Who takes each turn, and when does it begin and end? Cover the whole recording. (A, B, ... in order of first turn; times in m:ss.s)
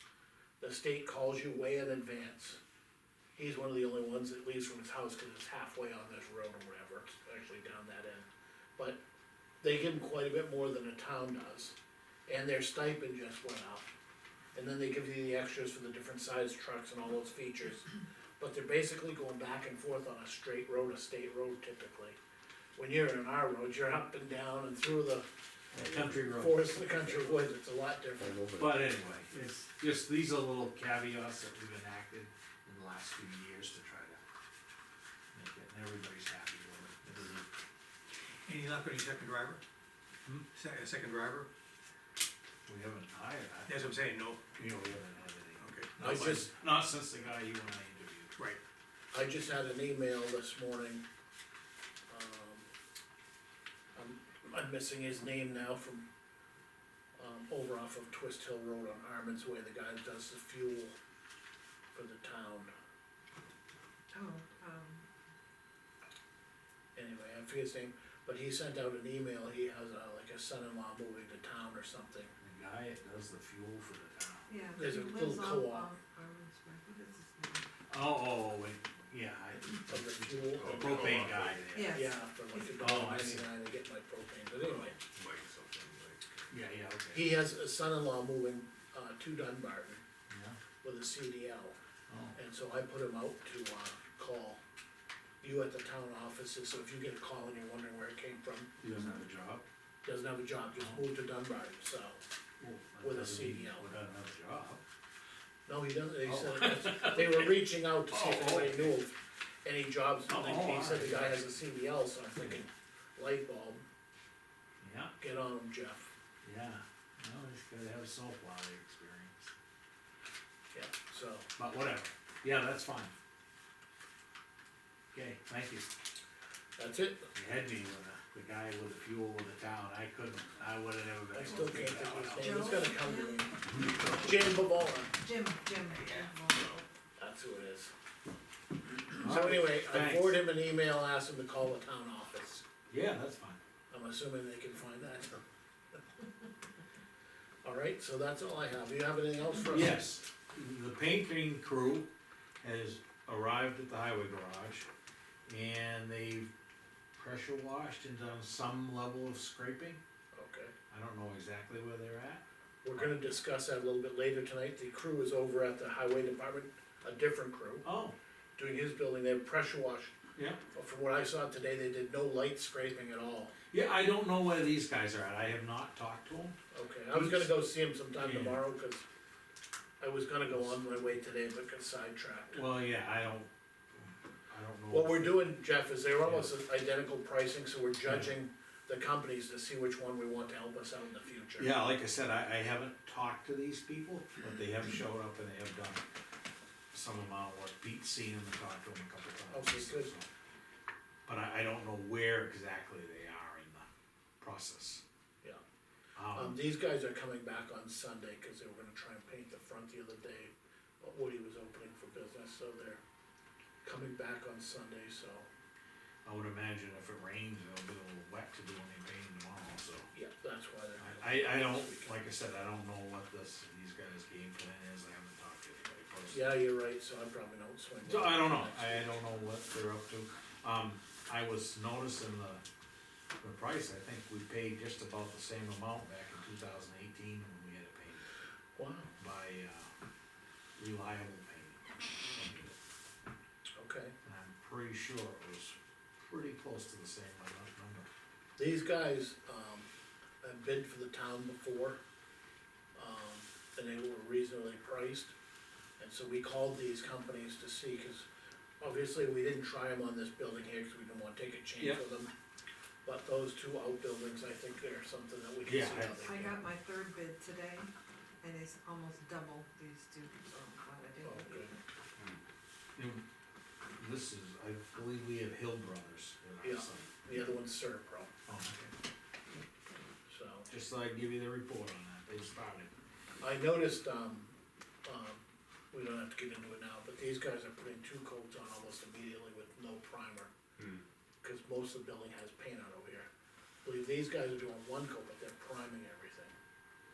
0:00.6-0:02.6 A
0:03.3-0:08.2 A
0:09.6-0:11.7 A
0:12.3-0:13.9 A
0:14.5-0:22.2 A
0:22.8-0:25.3 A
0:25.7-0:27.2 B
0:26.2-0:28.5 A
0:28.6-0:34.2 B
0:35.3-0:37.4 B
0:38.4-0:39.6 C
0:40.5-0:41.5 C
0:42.7-0:43.9 B
0:43.6-0:44.5 C
0:44.5-0:48.3 B
0:45.6-0:46.4 C
0:46.0-0:46.5 A
0:49.1-0:51.0 A
0:52.1-0:52.7 A
0:53.9-0:56.0 A
0:57.2-1:01.0 A
1:01.9-1:02.7 A
1:04.1-1:05.1 D
1:06.9-1:12.3 A
1:12.4-1:14.5 B
1:14.5-1:17.7 D
1:14.7-1:15.9 A
1:17.9-1:22.2 B
1:19.8-1:25.0 A
1:20.5-1:21.7 C
1:21.7-1:22.2 D
1:22.8-1:23.5 B
1:25.0-1:26.5 C
1:26.5-1:27.4 B
1:27.1-1:30.0 A
1:30.3-1:30.6 B
1:30.8-1:31.8 A
1:32.1-1:32.4 B
1:32.3-1:34.6 A
1:35.4-1:38.7 A
1:38.8-1:39.6 B
1:40.0-1:42.2 A
1:42.6-1:44.8 B
1:43.0-1:43.8 A
1:45.7-1:53.8 A
1:46.2-1:49.0 B
1:50.2-1:51.5 B
1:54.8-1:55.1 B
1:55.2-1:56.1 A
1:56.4-1:59.5 B
2:00.7-2:01.5 A
2:01.6-2:03.1 B
2:05.1-2:05.9 B
2:06.8-2:07.3 A
2:07.3-2:12.7 B
2:11.3-2:15.1 A
2:12.4-2:13.5 D
2:15.2-2:16.8 D
2:15.9-2:16.3 C
2:17.2-2:17.9 A
2:19.1-2:22.6 A
2:19.2-2:20.4 B
2:22.9-2:23.6 B
2:23.9-2:25.4 A
2:27.6-2:30.1 A
2:29.7-2:32.1 B
2:32.6-2:34.8 B
2:35.4-2:36.5 B
2:37.1-2:40.0 B
2:40.3-2:40.7 A
2:40.9-2:43.2 B
2:42.8-2:47.9 A
2:47.8-2:48.1 B
2:48.6-2:50.1 A
2:50.7-2:53.5 A
2:53.7-2:56.5 B
2:56.7-2:59.0 A
2:57.1-2:57.6 B
2:58.2-2:58.6 B
3:00.0-3:02.6 A
3:00.5-3:00.8 B
3:02.5-3:03.5 B
3:04.5-3:05.6 B
3:04.9-3:11.8 A
3:06.2-3:06.5 B
3:08.0-3:08.3 B
3:11.6-3:16.0 B
3:16.9-3:20.3 B
3:19.5-3:20.1 A
3:21.2-3:23.9 B
3:24.4-3:25.0 B
3:26.2-3:26.6 B
3:26.3-3:33.0 A
3:33.8-3:35.5 A
3:36.2-3:40.1 B
3:40.1-3:42.2 A
3:41.0-3:46.5 B
3:46.3-3:49.2 A
3:48.0-3:52.6 B
3:53.4-3:58.3 B
3:58.8-3:59.1 A
3:59.2-3:59.9 B
4:00.8-4:02.8 B
4:03.7-4:04.1 A
4:04.2-4:08.1 B
4:08.6-4:09.9 A
4:10.4-4:12.0 A
4:12.9-4:15.3 A
4:16.0-4:18.3 A
4:18.8-4:22.3 A
4:23.0-4:26.5 A
4:25.6-4:26.5 B
4:26.2-4:31.8 D
4:31.2-4:31.7 A
4:33.0-4:33.2 B
4:33.9-4:37.1 B
4:36.6-4:38.3 A
4:38.5-4:38.9 B
4:40.3-4:40.7 A
4:40.7-4:42.9 B
4:43.4-4:44.5 A
4:45.0-4:50.5 A
4:51.4-4:53.3 A
4:53.8-4:56.5 A